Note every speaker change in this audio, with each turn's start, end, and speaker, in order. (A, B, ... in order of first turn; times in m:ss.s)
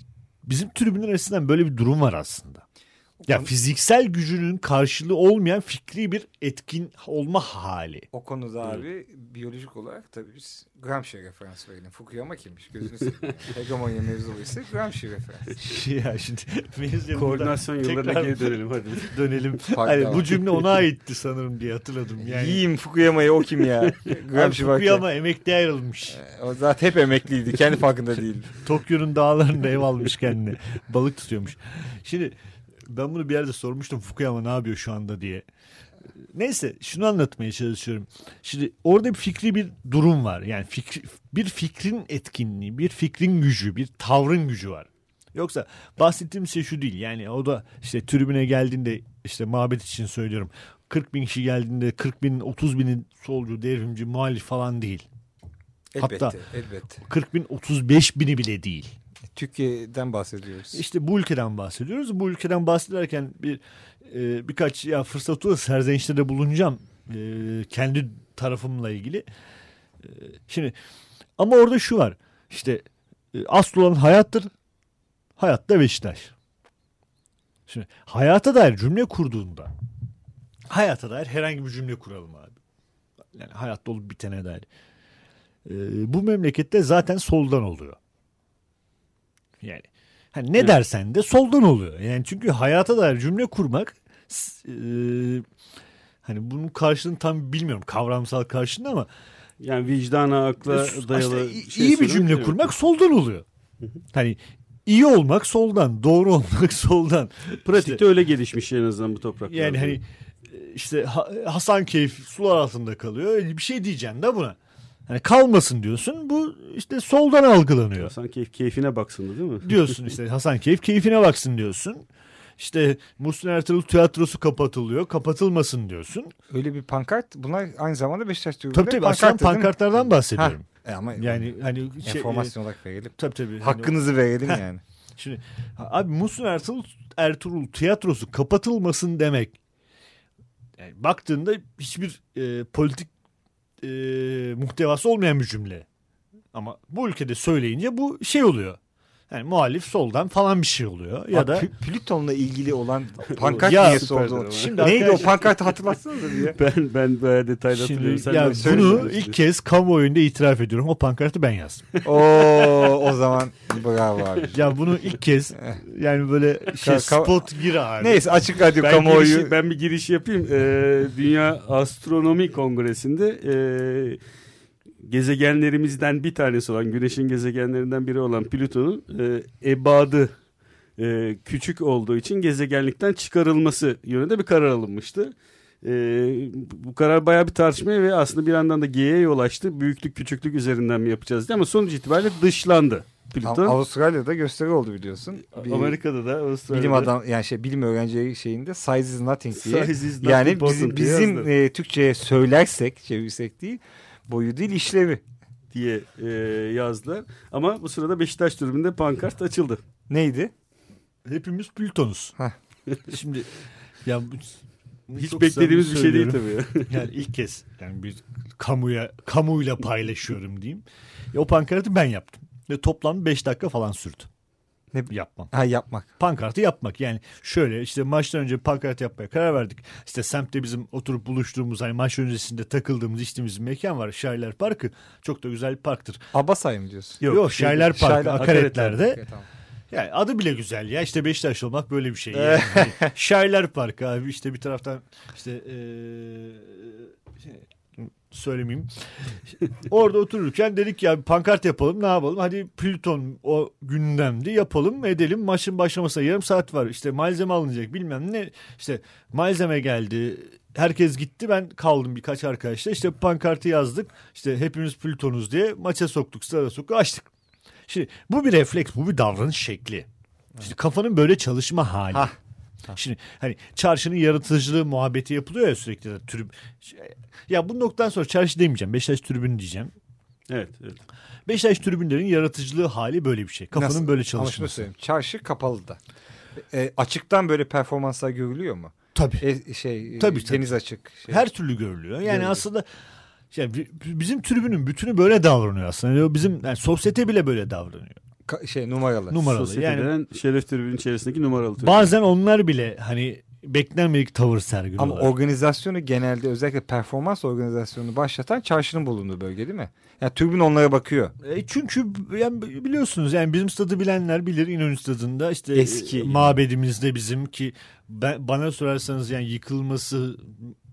0:00.4-0:02.6 A
0:03.2-0:03.5 B
0:03.3-0:08.1 A
0:08.1-0:15.6 B
0:15.6-0:18.6 A
0:17.1-0:19.2 C
0:19.1-0:22.6 A
0:19.7-0:20.3 B
0:22.2-0:25.0 B
0:24.3-0:26.2 A
0:26.1-0:28.5 B
0:28.6-0:32.4 A
0:32.9-0:35.5 A
0:36.3-0:55.1 A
0:56.0-0:57.0 B
0:56.0-0:56.4 A
0:57.0-0:59.0 A
0:59.3-1:00.8 B
1:00.7-1:09.3 A
1:10.0-1:10.8 A
1:11.4-1:14.5 A
1:15.4-1:16.3 A
1:17.7-1:19.7 A
1:20.7-1:22.6 A
1:23.4-1:24.7 A
1:25.7-1:28.0 A
1:29.6-1:35.5 A
1:36.2-1:39.1 A
1:39.6-1:42.7 C
1:40.6-1:43.4 A
1:44.1-1:48.0 A
1:47.7-1:50.0 C
1:49.5-1:58.1 A
1:58.0-1:59.9 C
1:59.6-2:02.1 A
2:02.6-2:06.3 A
2:06.5-2:14.8 B
2:08.7-2:10.6 A
2:11.2-2:12.5 A
2:13.2-2:14.6 A
2:15.2-2:19.6 A
2:20.8-2:23.1 A
2:23.8-2:25.9 A
2:26.5-2:28.8 A
2:29.3-2:31.7 A
2:31.3-2:36.6 B
2:33.3-2:35.4 C
2:33.6-2:35.4 A
2:36.4-2:39.4 C
2:37.7-2:41.8 A
2:38.4-2:39.1 B
2:42.0-2:44.6 B
2:44.5-2:48.2 A
2:46.8-2:47.4 B
2:48.0-2:49.5 B
2:48.8-2:54.2 C
2:55.0-3:00.4 C
3:01.0-3:13.8 C
3:13.4-3:16.0 B
3:15.5-3:17.1 C
3:16.7-3:25.2 B
3:19.5-3:21.5 C
3:25.7-3:29.8 C
3:30.1-3:30.5 B
3:31.3-3:32.4 A
3:33.1-3:33.5 A
3:34.0-3:44.3 A
3:35.2-3:37.0 C
3:44.9-3:46.1 B
3:45.1-3:45.5 A
3:46.2-3:56.2 A
3:56.3-3:59.5 B
3:57.2-3:58.9 C
3:57.3-3:59.2 A
3:59.9-4:07.6 A
4:02.3-4:03.1 B
4:08.1-4:08.9 A
4:09.8-4:27.3 A
4:27.9-4:30.1 A
4:30.6-4:32.3 A
4:33.0-4:39.9 A
4:40.5-4:41.0 C
4:41.5-4:44.9 A
4:43.7-4:46.0 B
4:46.6-4:51.5 B
4:49.2-4:49.4 A
4:50.2-4:50.6 A
4:51.3-4:52.8 A
4:52.3-4:52.6 B
4:53.5-4:58.2 A
4:58.5-4:59.4 B
4:59.3-5:00.1 A
4:59.4-5:02.1 C
5:01.8-5:05.3 A
5:05.0-5:11.4 B
5:11.4-5:20.7 A
5:15.7-5:16.6 B